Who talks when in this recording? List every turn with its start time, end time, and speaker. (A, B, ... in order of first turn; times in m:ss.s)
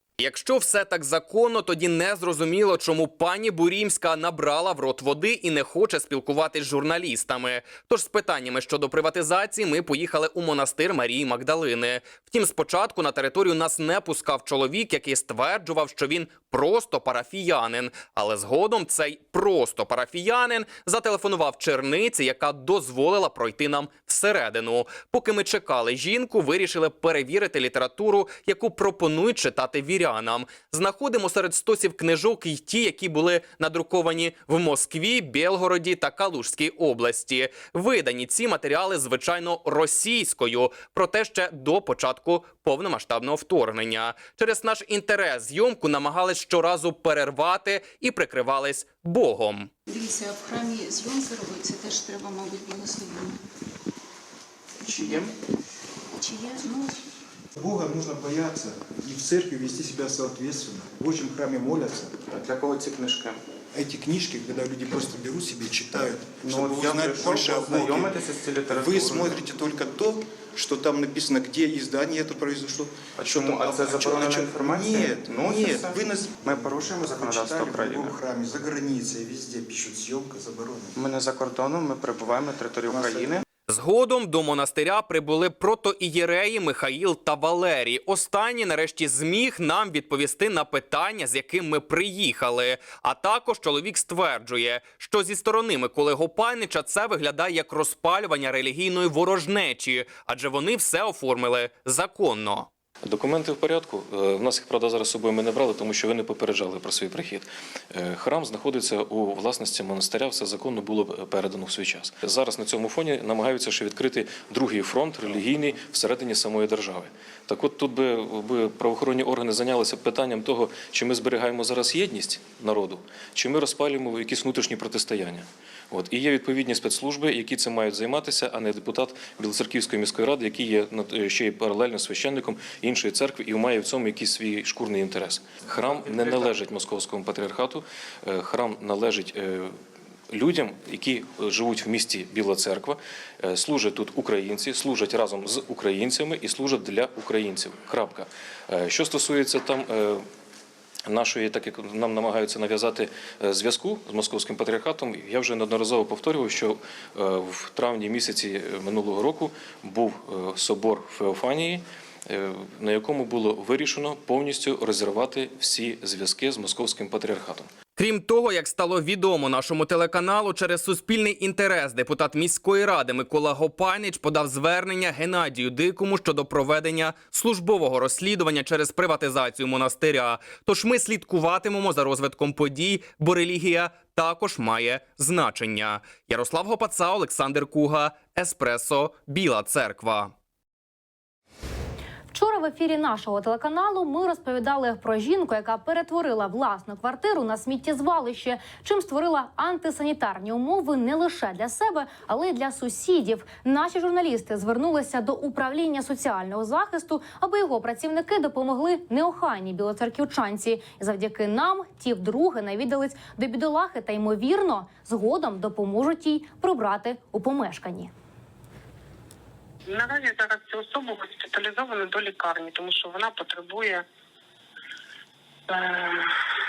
0:00.2-0:49.7 A
0:49.9-0:53.3 B
0:54.8-0:55.3 C
0:56.2-0:56.8 B
0:57.6-1:02.2 D
1:02.3-1:03.4 C
1:03.7-1:08.2 D
1:06.4-1:09.4 C
1:08.7-1:21.0 D
1:13.2-1:18.2 C
1:20.9-1:23.4 C
1:22.8-1:23.3 D
1:23.7-1:42.7 A
1:43.0-2:19.7 E
2:20.3-2:30.2 E
2:31.1-2:47.7 E
2:48.0-3:10.3 A
3:12.3-3:38.1 F
3:39.9-3:44.0 G
3:45.7-3:46.3 G